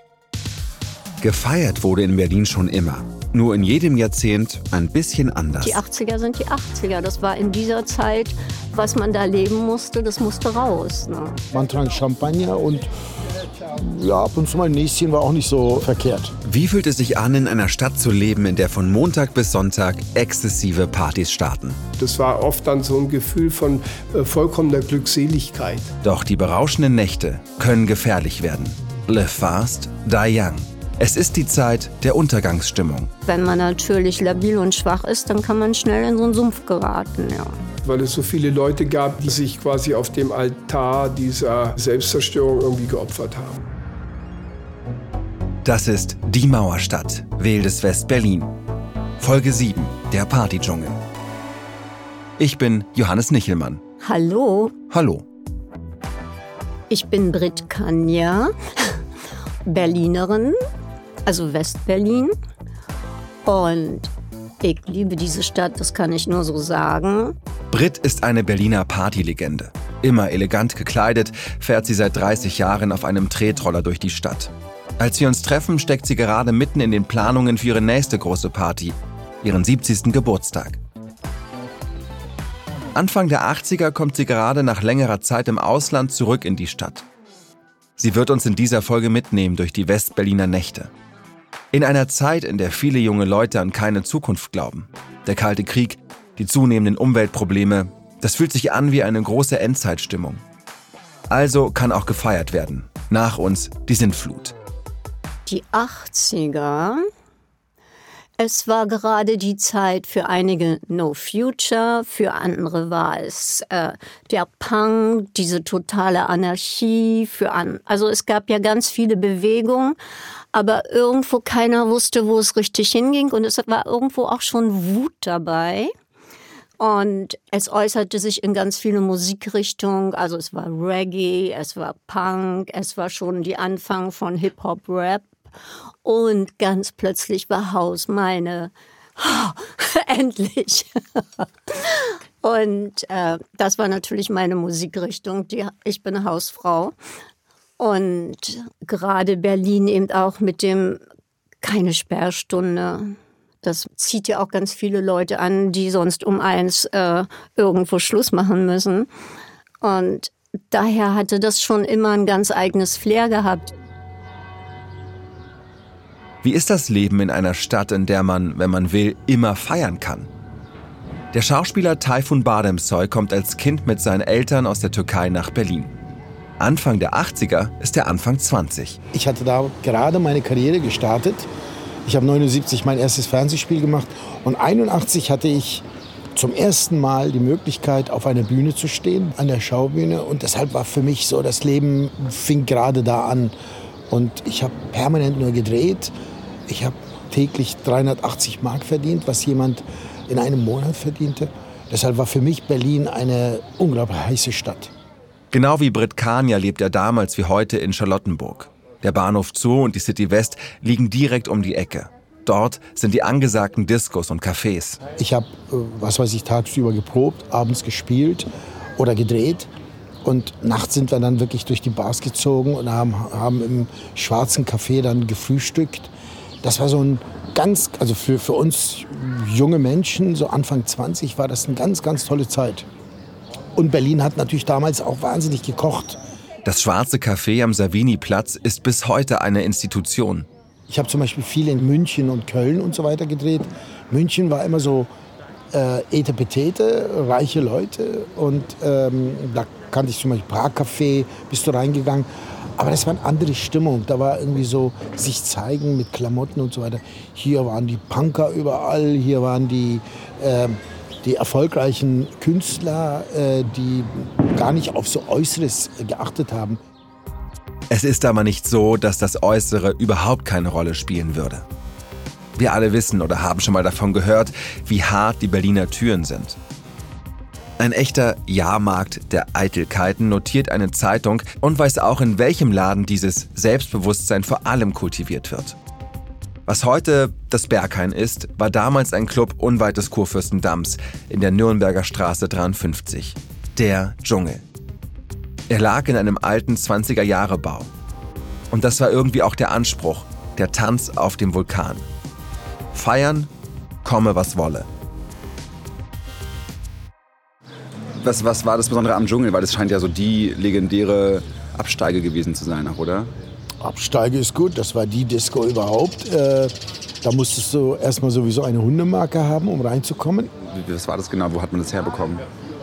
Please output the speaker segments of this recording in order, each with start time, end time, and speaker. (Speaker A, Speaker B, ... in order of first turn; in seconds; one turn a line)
Speaker A: 1.2-5.8
Speaker B: 5.6-11.4
Speaker C: 11.5-12.9
Speaker C: 13.6-16.4
Speaker A: 16.4-21.8
Speaker D: 22.0-25.9
Speaker A: 26.0-33.1
Speaker B: 33.2-37.5
Speaker D: 37.8-43.6
Speaker A: 45.6-48.5
Speaker A: 49.2-51.0
Speaker A: 52.4-53.8
Speaker B: 54.0-54.7
Speaker A: 54.9-55.2
Speaker B: 56.9-59.0
Speaker B: 59.7-60.6
Speaker B: 61.3-62.3
Speaker B: 63.5-64.1
Speaker B: 64.6-67.3
Speaker A: 67.7-80.8
Speaker A: 82.9-87.1
Speaker A: 88.0-90.9
Speaker A: 91.7-100.4
Speaker A: 101.3-104.5
Speaker B: 105.5-107.0
Speaker B: 108.4-120.0
Speaker B: 120.5-125.9
Speaker B: 126.8-135.3
Speaker B: 136.0-146.9
Speaker B: 147.8-151.0
Speaker B: 151.6-159.1
Speaker B: 159.8-163.7
Speaker A: 166.4-170.3
Speaker A: 171.3-175.9
Speaker A: 176.6-179.0
Speaker C: 179.1-181.5
Speaker C: 182.0-193.5
Speaker C: 194.1-196.1
Speaker C: 196.7-204.9
Speaker A: 205.5-215.0
Speaker C: 215.2-219.7
Speaker C: 220.2-232.9
Speaker C: 233.8-236.2
Speaker A: 236.7-240.5
Speaker C: 240.9-245.1
Speaker C: 245.7-266.8
Speaker A: 267.9-271.7
Speaker A: 272.6-276.6
Speaker A: 277.8-285.8
Speaker A: 286.7-294.6
Speaker A: 295.7-297.9
Speaker A: 298.7-302.1
Speaker A: 302.9-303.5
Speaker A: 304.0-304.9
Speaker A: 308.2-309.8
Speaker E: 309.3-310.7
Speaker A: 310.6-313.2
Speaker E: 312.3-313.1
Speaker C: 313.8-320.5
Speaker A: 320.7-321.5
Speaker E: 321.7-322.4